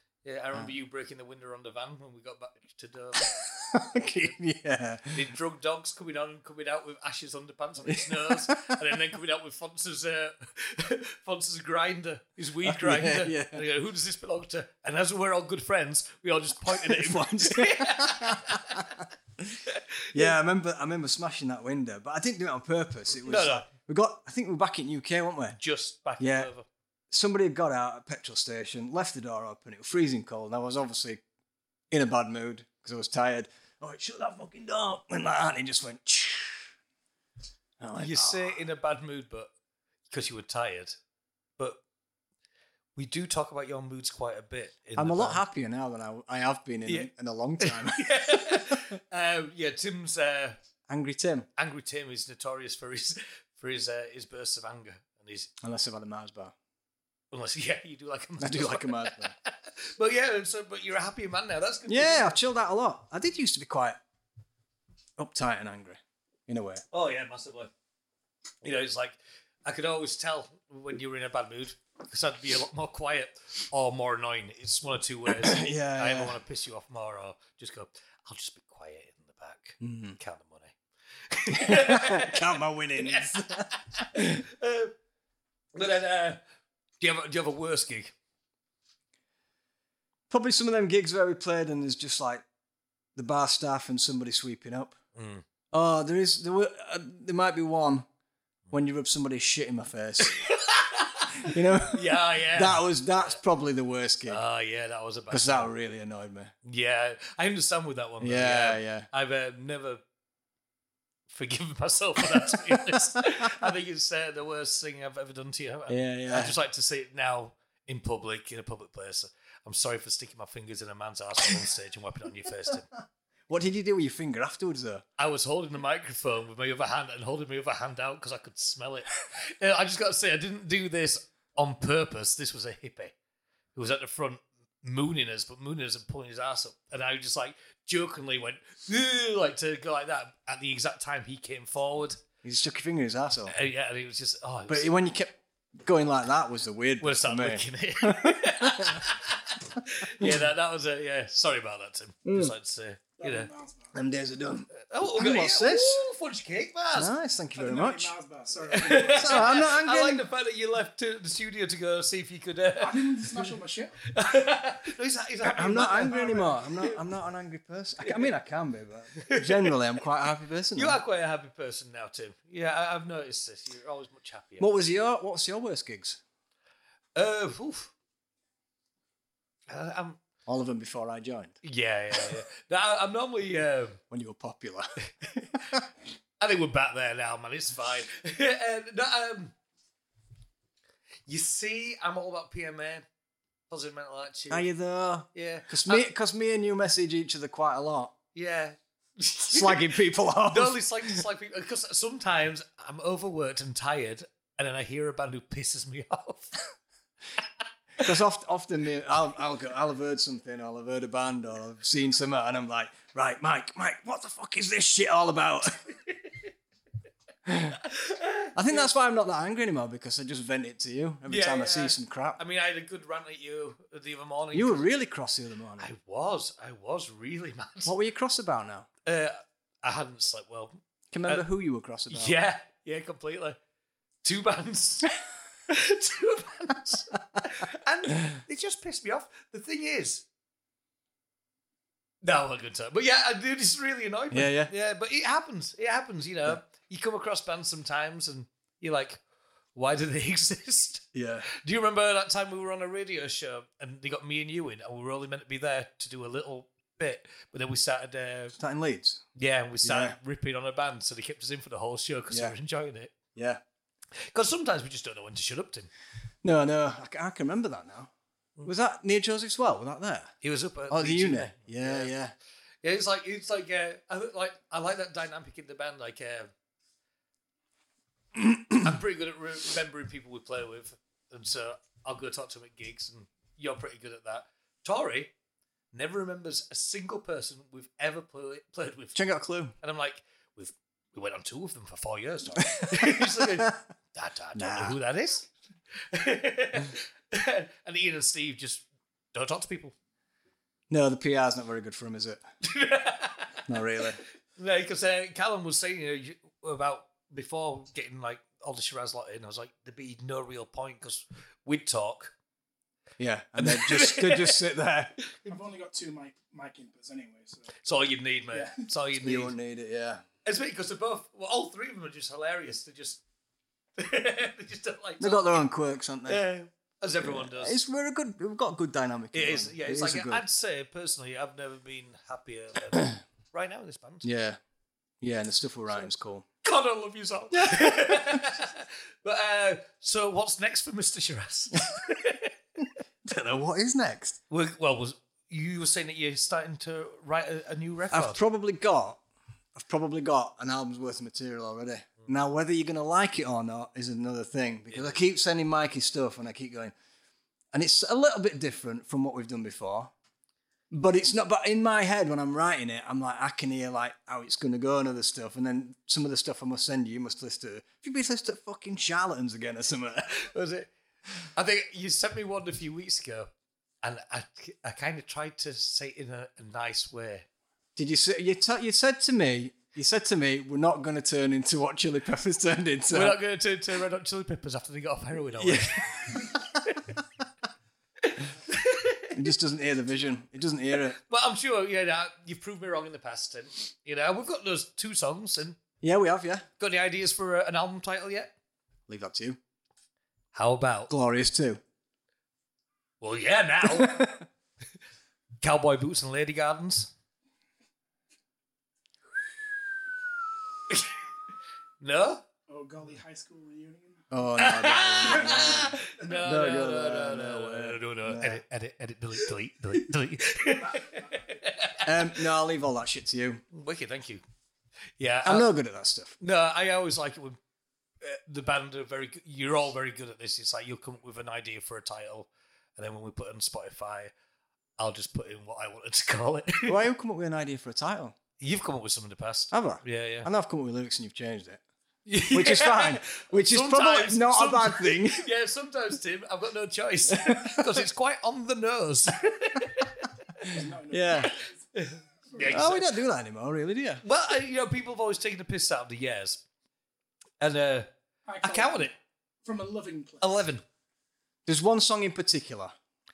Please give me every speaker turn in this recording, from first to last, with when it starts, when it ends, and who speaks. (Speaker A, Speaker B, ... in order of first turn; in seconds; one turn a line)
Speaker A: 0.2-3.3
Speaker B: 3.2-5.2
Speaker A: 3.9-4.3
Speaker A: 5.1-18.9
Speaker B: 7.9-8.8
Speaker B: 12.6-13.6
Speaker B: 16.6-19.6
Speaker A: 19.7-20.3
Speaker B: 20.1-25.6
Speaker A: 23.2-23.7
Speaker A: 25.6-26.7
Speaker B: 26.2-26.5
Speaker B: 27.1-31.2
Speaker B: 31.9-36.7
Speaker B: 37.8-38.6
Speaker A: 38.0-39.5
Speaker A: 40.1-41.0
Speaker A: 43.0-45.4
Speaker B: 45.0-48.9
Speaker A: 46.9-50.6
Speaker B: 50.9-51.5
Speaker A: 51.6-55.5
Speaker B: 55.6-56.5
Speaker A: 57.3-62.4
Speaker B: 58.4-59.3
Speaker B: 61.9-64.0
Speaker B: 65.2-66.8
Speaker A: 66.9-67.7
Speaker A: 68.6-84.9
Speaker B: 75.3-76.4
Speaker B: 79.8-80.2
Speaker B: 81.5-84.5
Speaker A: 85.7-86.4
Speaker A: 87.0-88.1
Speaker B: 90.3-92.4
Speaker B: 93.2-95.0
Speaker A: 95.2-95.5
Speaker B: 95.7-98.1
Speaker B: 98.7-100.4
Speaker A: 100.2-103.4
Speaker B: 101.3-104.4
Speaker A: 104.3-105.7
Speaker B: 105.3-106.5
Speaker A: 106.7-110.0
Speaker B: 108.2-109.1
Speaker A: 111.3-122.9
Speaker B: 112.2-113.7
Speaker B: 115.9-116.6
Speaker B: 123.5-125.0
Speaker A: 125.2-133.2
Speaker A: 133.8-142.2
Speaker B: 142.4-143.6
Speaker A: 143.5-144.9
Speaker B: 144.7-149.1
Speaker A: 147.0-153.5
Speaker B: 150.0-150.5
Speaker B: 152.2-152.5
Speaker C: 153.2-153.9
Speaker B: 153.9-156.0
Speaker A: 154.8-157.1
Speaker B: 156.9-158.1
Speaker C: 157.6-159.5
Speaker A: 158.7-163.5
Speaker B: 159.0-160.2
Speaker C: 162.8-164.0
Speaker A: 164.0-167.0
Speaker B: 165.5-171.0
Speaker A: 168.0-168.3
Speaker A: 169.1-169.8
Speaker A: 170.7-174.7
Speaker B: 174.6-176.2
Speaker A: 177.2-177.9
Speaker A: 179.7-180.2
Speaker B: 180.5-181.6
Speaker A: 181.6-184.0
Speaker B: 184.1-184.9
Speaker B: 185.5-185.8
Speaker A: 186.4-189.6
Speaker A: 191.3-193.1
Speaker A: 193.7-194.7
Speaker B: 194.5-198.1
Speaker A: 195.3-196.1
Speaker A: 198.3-206.5
Speaker B: 199.5-201.2
Speaker B: 208.0-215.8
Speaker A: 216.0-216.4
Speaker B: 217.5-217.8
Speaker A: 217.8-218.9
Speaker B: 218.6-222.4
Speaker A: 221.3-224.9
Speaker B: 224.5-225.9
Speaker A: 225.8-227.9
Speaker B: 227.9-228.9
Speaker A: 229.1-231.4
Speaker B: 231.1-232.3
Speaker A: 232.1-233.6
Speaker A: 234.2-240.2
Speaker A: 242.2-249.2
Speaker B: 244.3-244.7
Speaker A: 249.8-258.6
Speaker B: 251.1-251.5
Speaker B: 258.6-259.2
Speaker A: 259.4-263.1
Speaker B: 259.8-260.2
Speaker B: 262.3-262.6
Speaker B: 263.4-263.6
Speaker A: 264.1-265.9
Speaker B: 266.4-268.1
Speaker B: 268.6-270.3
Speaker A: 270.4-272.1
Speaker B: 270.9-272.3
Speaker A: 272.8-276.5
Speaker B: 278.4-278.9
Speaker A: 278.8-285.3
Speaker A: 285.9-289.2
Speaker B: 289.1-289.8
Speaker A: 289.8-295.5
Speaker B: 292.7-293.8
Speaker B: 294.6-295.0
Speaker A: 296.1-300.0
Speaker B: 300.9-302.4
Speaker A: 302.6-303.6
Speaker B: 303.7-304.2
Speaker A: 304.6-312.3
Speaker B: 313.2-315.2
Speaker A: 313.6-314.6
Speaker C: 315.5-317.7
Speaker A: 317.8-319.5
Speaker C: 318.5-318.9
Speaker B: 319.2-320.2
Speaker A: 320.4-323.2
Speaker A: 324.0-325.6
Speaker B: 325.2-326.4
Speaker A: 326.3-327.8
Speaker B: 327.2-330.4
Speaker A: 329.3-334.3
Speaker B: 334.2-334.6
Speaker B: 335.2-336.5
Speaker A: 336.6-342.5
Speaker B: 337.5-338.5
Speaker B: 343.2-344.4
Speaker A: 344.5-348.4
Speaker B: 348.1-349.2
Speaker B: 349.8-356.9
Speaker A: 354.9-355.2
Speaker B: 357.7-360.1
Speaker B: 360.9-370.4
Speaker A: 370.3-370.9
Speaker A: 371.4-373.5
Speaker A: 374.0-377.5
Speaker B: 378.0-383.4
Speaker A: 383.1-387.1
Speaker B: 385.6-386.7
Speaker A: 388.2-389.4
Speaker B: 389.3-391.2
Speaker A: 391.2-395.8
Speaker B: 396.0-396.7
Speaker A: 396.8-398.5
Speaker B: 399.1-399.6
Speaker A: 400.5-401.1
Speaker B: 401.1-401.8
Speaker A: 403.2-404.3
Speaker B: 403.9-404.4
Speaker A: 405.6-407.1
Speaker A: 412.0-412.4
Speaker C: 412.7-414.3
Speaker B: 414.3-418.6
Speaker A: 414.6-422.4
Speaker C: 415.4-416.4
Speaker C: 420.7-421.5
Speaker B: 422.0-423.6
Speaker A: 423.7-424.4
Speaker A: 425.2-425.7
Speaker B: 425.4-426.4
Speaker A: 426.4-427.6
Speaker A: 428.2-434.3
Speaker A: 435.0-437.0
Speaker B: 436.9-438.4
Speaker A: 438.6-440.5
Speaker B: 439.7-441.8
Speaker A: 442.3-450.3
Speaker B: 442.5-445.5
Speaker B: 447.3-447.9
Speaker C: 450.6-452.8
Speaker B: 450.7-451.5
Speaker A: 451.4-453.1
Speaker B: 452.7-454.2
Speaker A: 454.2-456.6
Speaker A: 457.6-458.1
Speaker C: 458.5-459.1
Speaker A: 458.6-459.1
Speaker C: 459.6-460.6
Speaker A: 460.4-460.8
Speaker B: 461.7-462.9